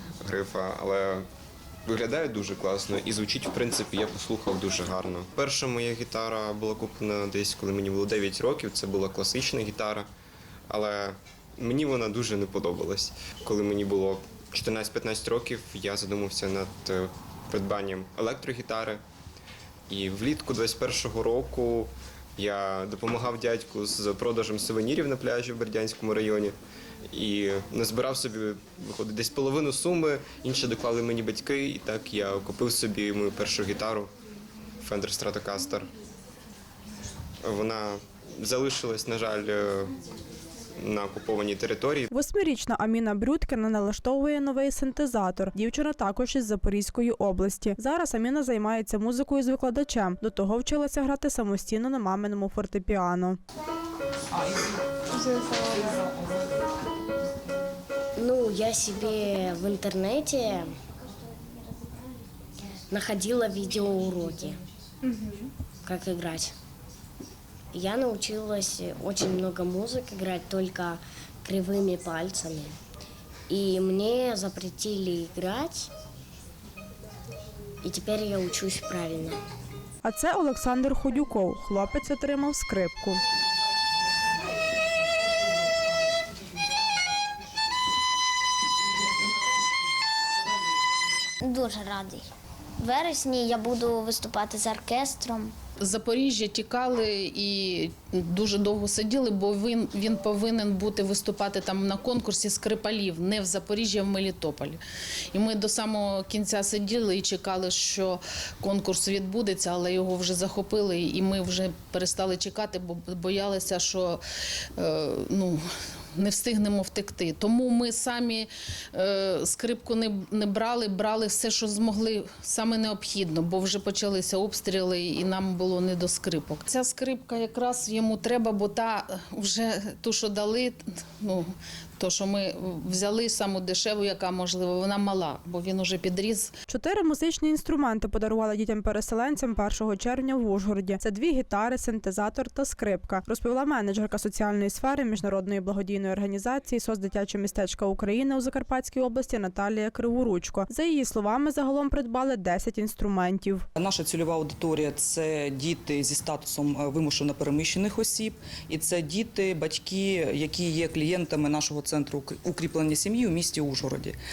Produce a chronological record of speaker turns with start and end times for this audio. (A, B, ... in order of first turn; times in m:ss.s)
0:00.2-0:01.2 A
0:01.8-0:10.1 A
0:10.7-0:19.0 A
0:19.9-0:26.5 A
0:27.1-0:34.1 A
0:34.8-0:35.9 A
0:37.4-0:39.9 A
0:40.8-0:42.1 A
0:42.1-0:53.4 B
0:55.2-0:56.1 C
0:58.2-1:00.7 D
1:02.9-1:04.6 D
1:05.8-1:06.5 D
1:07.7-1:12.8 D
1:13.5-1:15.9 D
1:17.8-1:19.4 D
1:20.0-1:23.2 B
1:31.4-1:35.5 E
1:35.8-1:44.8 F
1:45.3-1:54.2 F
1:54.7-1:55.6 F
1:56.1-2:16.5 F
2:16.7-2:33.6 B
2:33.8-2:44.2 C